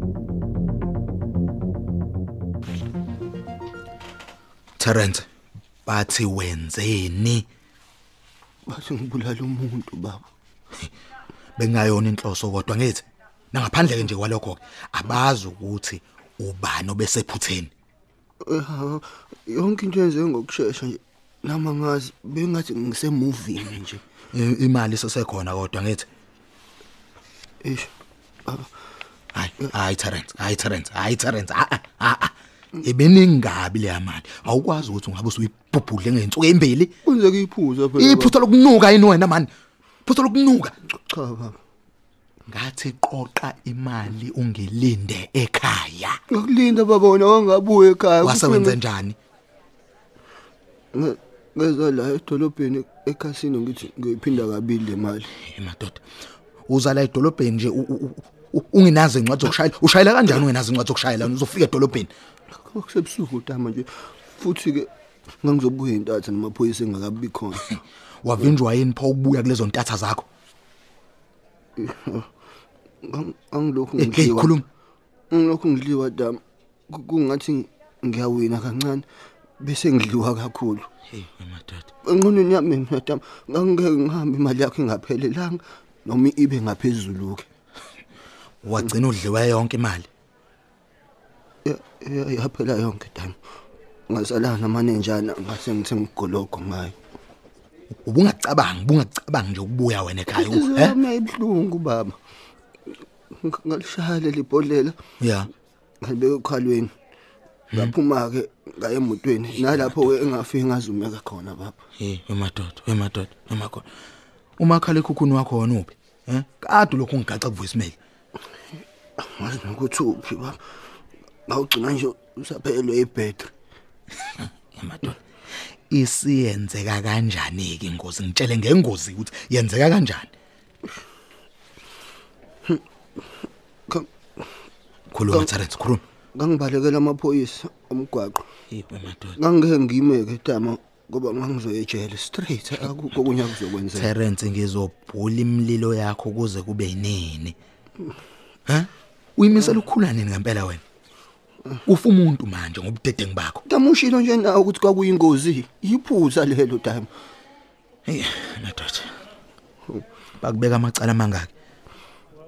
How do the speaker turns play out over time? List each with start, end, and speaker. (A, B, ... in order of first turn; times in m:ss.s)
0:04.8-0:05.2 A
0:05.8-0:07.4 A
0:08.7-0:10.2 B
0:11.6-0:17.7 A
0:18.4-0:24.0 B
0:24.3-0:26.1 A
0:27.6-0:27.9 B
0:29.3-0:36.9 A
0:37.0-0:38.3 B
0:38.0-0:39.5 A
0:40.0-0:40.8 A
0:41.0-0:41.6 B
0:42.5-0:46.2 A
0:46.3-0:48.8 B
0:48.2-0:49.2 A
0:50.9-0:55.3 B
0:55.4-0:56.0 A
0:56.7-1:02.1 A
1:02.5-1:04.9 B
1:05.4-1:07.8 B
1:07.7-1:10.2 A
1:11.8-1:12.3 B
1:13.0-1:14.5 B
1:14.0-1:14.6 A
1:15.3-1:19.0 B
1:19.6-1:20.9 B
1:21.1-1:21.9 A
1:22.0-1:27.5 B
1:28.6-1:30.1 A
1:31.6-1:33.4 B
1:34.1-1:36.9 B
1:38.0-1:41.0 A
1:40.3-1:42.2 B
1:43.3-1:45.0 B
1:45.2-1:45.5 A
1:46.0-1:46.9 B
1:47.7-1:51.8 B
1:52.0-1:53.8 A
1:54.6-1:58.0 A
1:59.2-2:00.6 B
2:01.5-2:03.5 B
2:04.4-2:05.2 A
2:05.9-2:10.3 A
2:12.6-2:13.2 B
2:13.9-2:14.4 B
2:15.1-2:16.0 A
2:16.3-2:18.4 B
2:18.7-2:19.4 A
2:19.4-2:24.1 B
2:23.9-2:27.6 A
2:28.7-2:30.8 A
2:31.8-2:33.6 A
2:33.7-2:37.1 B
2:38.0-2:39.1 A
2:40.4-2:41.5 A